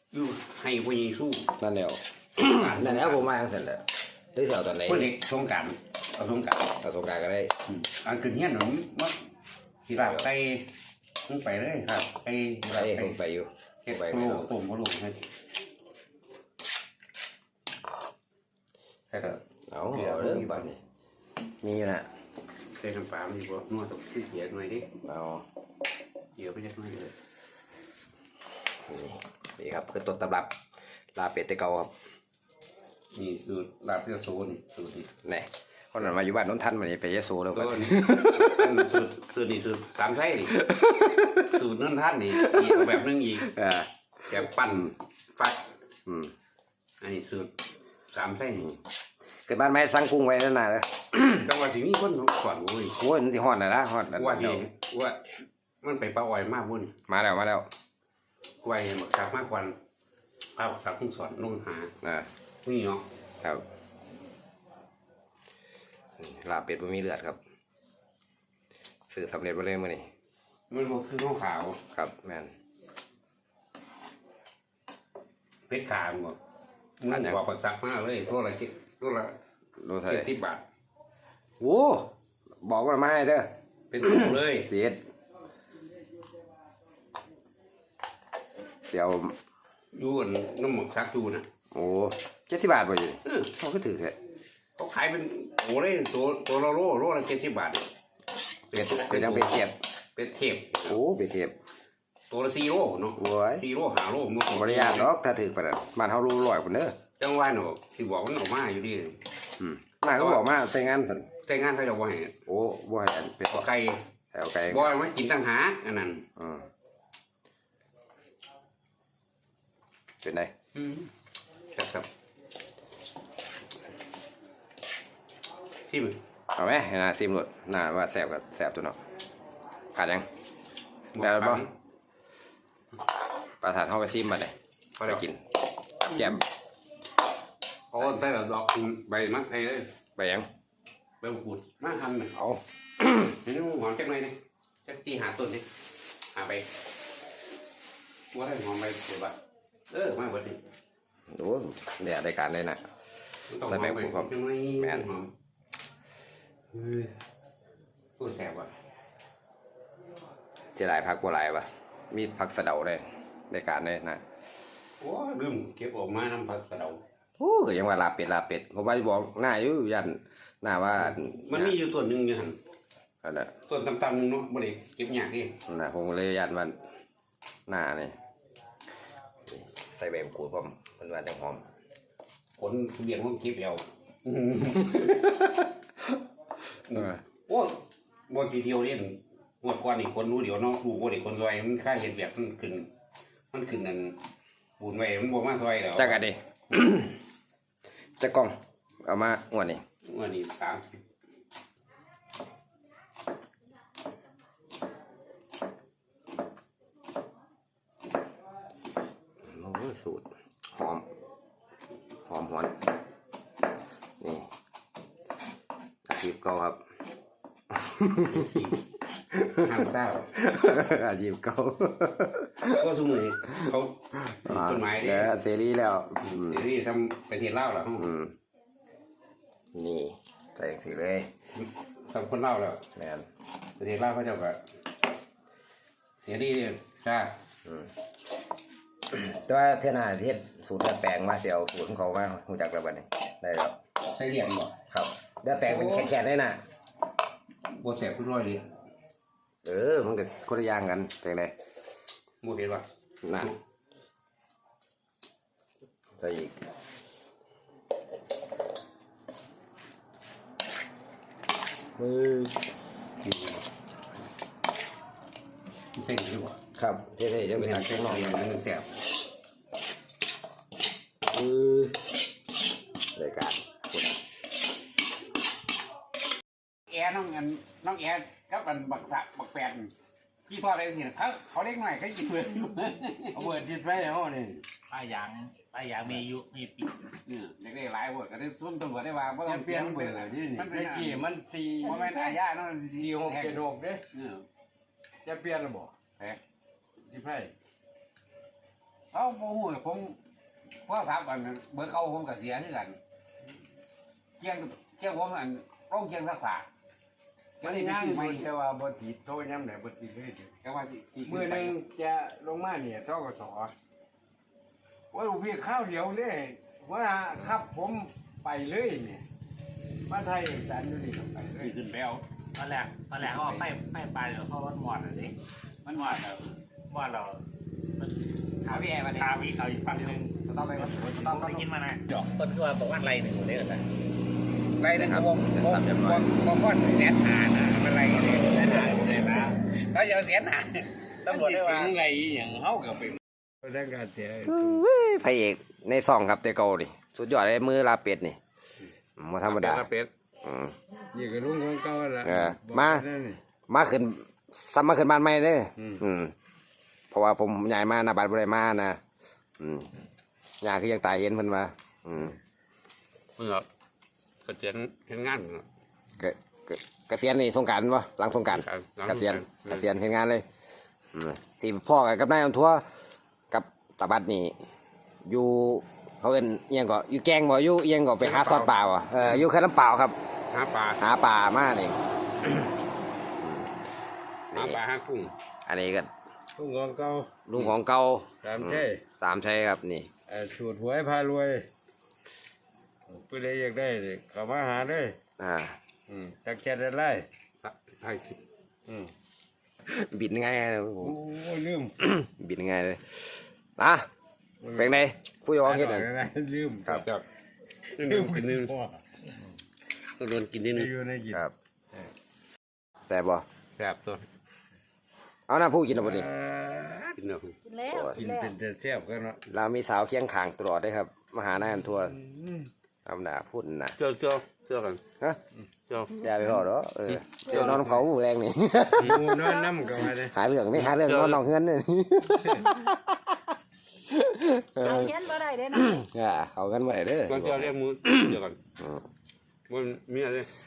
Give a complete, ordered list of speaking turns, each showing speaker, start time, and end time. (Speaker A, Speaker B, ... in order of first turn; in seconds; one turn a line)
Speaker A: 0.1-1.5
Speaker B: 1.6-5.1
Speaker A: 2.4-3.3
Speaker A: 4.8-6.7
Speaker B: 6.8-7.5
Speaker A: 7.7-9.2
Speaker A: 9.9-10.7
Speaker B: 10.0-10.2
Speaker A: 11.3-13.2
Speaker B: 12.6-14.5
Speaker A: 13.8-15.2
Speaker A: 19.1-20.7
Speaker B: 19.7-20.8
Speaker B: 21.6-22.1
Speaker A: 22.7-24.9
Speaker B: 25.0-25.4
Speaker A: 26.4-27.1
Speaker B: 28.9-30.6
Speaker B: 31.1-31.9
Speaker A: 33.1-35.1
Speaker B: 35.2-38.9
Speaker A: 37.5-40.6
Speaker B: 40.5-41.6
Speaker A: 41.4-43.5
Speaker B: 42.3-43.9
Speaker A: 44.2-45.7
Speaker B: 46.1-46.3
Speaker A: 47.0-47.5
Speaker A: 48.1-48.7
Speaker B: 49.5-51.5
Speaker A: 51.4-53.0
Speaker B: 53.0-54.6
Speaker A: 54.1-55.3
Speaker A: 55.8-56.9
Speaker B: 57.1-57.7
Speaker A: 58.6-59.8
Speaker A: 60.5-61.9
Speaker B: 62.0-62.3
Speaker A: 62.6-63.0
Speaker B: 66.2-67.4
Speaker B: 69.1-70.1
Speaker A: 70.7-71.8
Speaker B: 71.9-72.5
Speaker A: 75.7-76.4
Speaker A: 77.0-79.4
Speaker B: 77.1-77.4
Speaker B: 79.8-80.3
Speaker A: 80.0-80.6
Speaker B: 81.6-82.1
Speaker B: 82.6-83.5
Speaker A: 83.9-84.7
Speaker B: 84.0-85.0
Speaker B: 88.9-89.4
Speaker A: 89.9-91.5
Speaker B: 91.7-94.2
Speaker A: 93.2-93.5
Speaker A: 94.8-97.9
Speaker A: 98.7-99.6
Speaker B: 98.7-99.8
Speaker A: 100.2-101.0
Speaker B: 100.8-101.5
Speaker A: 102.3-105.1
Speaker B: 103.2-103.6
Speaker B: 104.5-107.0
Speaker A: 107.2-109.2
Speaker B: 109.6-111.3
Speaker A: 110.1-110.5
Speaker A: 111.4-112.3
Speaker B: 112.5-113.7
Speaker A: 113.5-114.0
Speaker B: 114.3-115.0
Speaker A: 114.7-116.2
Speaker B: 116.4-116.7
Speaker B: 120.2-120.5
Speaker A: 120.7-121.1
Speaker A: 121.7-122.1
Speaker A: 125.9-126.2
Speaker B: 126.5-129.0
Speaker B: 129.9-130.3
Speaker A: 131.1-131.7
Speaker B: 131.2-131.6
Speaker B: 133.6-135.4
Speaker A: 135.0-135.2
Speaker B: 136.1-136.4
Speaker A: 137.9-139.9
Speaker B: 140.2-140.5
Speaker A: 141.2-142.3
Speaker B: 142.3-143.4
Speaker A: 143.4-145.7
Speaker A: 146.3-146.7
Speaker A: 148.3-149.4
Speaker A: 149.9-150.6
Speaker B: 151.3-152.8
Speaker A: 153.5-155.3
Speaker B: 153.6-155.1
Speaker A: 156.7-157.1
Speaker A: 158.2-158.7
Speaker B: 160.8-164.2
Speaker A: 165.0-167.0
Speaker B: 167.4-171.8
Speaker A: 170.9-172.6
Speaker B: 173.2-173.5
Speaker A: 173.7-175.6
Speaker B: 175.7-176.8
Speaker B: 177.7-178.2
Speaker B: 179.5-181.6
Speaker A: 182.6-185.5
Speaker A: 186.9-192.9
Speaker B: 186.9-187.2
Speaker A: 193.5-194.2
Speaker A: 194.8-196.2
Speaker B: 196.0-197.2
Speaker B: 198.2-199.8
Speaker A: 200.0-201.0
Speaker B: 209.4-211.1
Speaker B: 212.2-212.8
Speaker B: 214.2-214.5
Speaker B: 216.1-216.8
Speaker B: 217.7-218.5
Speaker A: 218.2-218.8
Speaker B: 219.3-222.9
Speaker A: 219.6-220.5
Speaker A: 222.7-225.3
Speaker B: 224.3-226.6
Speaker A: 226.2-228.1
Speaker B: 228.0-228.3
Speaker B: 229.7-231.3
Speaker A: 231.5-232.9
Speaker B: 232.9-233.2
Speaker A: 233.8-234.6
Speaker A: 236.2-237.3
Speaker B: 237.6-237.9
Speaker B: 239.1-243.8
Speaker A: 244.0-244.8
Speaker B: 244.9-246.6
Speaker A: 245.6-246.1
Speaker A: 247.7-248.7
Speaker B: 249.6-251.5
Speaker A: 252.4-252.8
Speaker B: 253.2-253.5
Speaker B: 256.2-256.5
Speaker B: 262.0-262.6
Speaker A: 263.2-263.6
Speaker A: 265.9-266.6
Speaker B: 266.8-268.5
Speaker A: 267.5-268.9
Speaker B: 271.3-272.0
Speaker B: 273.1-274.2
Speaker A: 276.9-279.9
Speaker A: 280.5-283.4
Speaker C: 283.3-284.6
Speaker D: 284.9-287.0
Speaker A: 287.2-291.2
Speaker C: 289.4-292.3
Speaker A: 291.8-294.4
Speaker C: 293.0-294.0
Speaker C: 295.2-295.9
Speaker C: 297.1-297.5
Speaker A: 299.1-300.2
Speaker A: 300.8-303.0
Speaker A: 304.4-306.7
Speaker C: 307.6-310.5
Speaker A: 307.6-308.5
Speaker A: 310.6-311.8
Speaker C: 311.2-313.7
Speaker C: 315.1-319.2
Speaker C: 320.1-321.7
Speaker A: 321.6-322.2
Speaker D: 322.6-325.4
Speaker A: 323.1-323.8
Speaker D: 325.9-327.4
Speaker A: 325.9-326.2
Speaker D: 328.0-333.8
Speaker B: 328.7-329.4
Speaker B: 330.4-331.6
Speaker A: 332.1-333.8
Speaker A: 334.8-342.0
Speaker B: 334.9-336.3
Speaker C: 338.8-339.4
Speaker C: 341.2-344.8
Speaker B: 344.4-348.4
Speaker B: 349.2-349.9
Speaker A: 349.4-350.1
Speaker B: 350.4-350.7
Speaker C: 351.1-353.4
Speaker B: 352.2-353.0
Speaker B: 353.7-356.3
Speaker C: 355.8-356.0
Speaker B: 357.1-359.0
Speaker B: 359.6-359.9
Speaker B: 360.6-362.4
Speaker A: 363.4-363.7
Speaker A: 364.4-365.6
Speaker B: 366.2-370.4
Speaker A: 368.5-369.9
Speaker B: 371.1-372.9
Speaker B: 373.5-374.6
Speaker B: 375.2-380.2
Speaker A: 378.2-379.4
Speaker A: 380.5-381.0
Speaker B: 381.0-382.7
Speaker B: 383.4-383.8
Speaker B: 384.5-384.8
Speaker A: 384.5-385.3
Speaker B: 385.6-386.1
Speaker C: 386.6-387.6
Speaker B: 387.5-390.1
Speaker C: 388.4-389.0
Speaker C: 390.3-391.6
Speaker C: 393.1-395.1
Speaker B: 395.4-395.8
Speaker C: 396.1-397.2
Speaker A: 397.6-398.4
Speaker C: 398.9-399.1
Speaker B: 399.9-401.2
Speaker C: 401.0-402.0
Speaker B: 402.0-404.1
Speaker C: 404.6-405.0
Speaker B: 404.8-406.1
Speaker C: 405.6-407.1
Speaker A: 406.9-407.2
Speaker A: 407.9-408.7
Speaker C: 408.0-409.0
Speaker A: 410.2-410.9
Speaker C: 410.7-411.4
Speaker B: 413.1-413.4
Speaker A: 413.8-414.2
Speaker B: 415.5-416.3
Speaker C: 415.9-417.2
Speaker A: 417.1-417.6
Speaker E: 417.6-418.5
Speaker B: 417.9-418.2
Speaker C: 418.1-419.4
Speaker B: 419.5-422.2
Speaker C: 422.2-422.7
Speaker B: 423.1-423.9
Speaker A: 423.9-425.0
Speaker A: 425.9-426.3
Speaker B: 426.1-429.4
Speaker C: 427.5-428.0
Speaker A: 429.0-429.2
Speaker C: 429.0-430.4
Speaker E: 429.4-430.0
Speaker B: 430.2-433.5
Speaker A: 430.7-431.4
Speaker B: 434.1-439.0
Speaker E: 434.8-436.0
Speaker A: 437.3-438.6
Speaker A: 439.7-440.5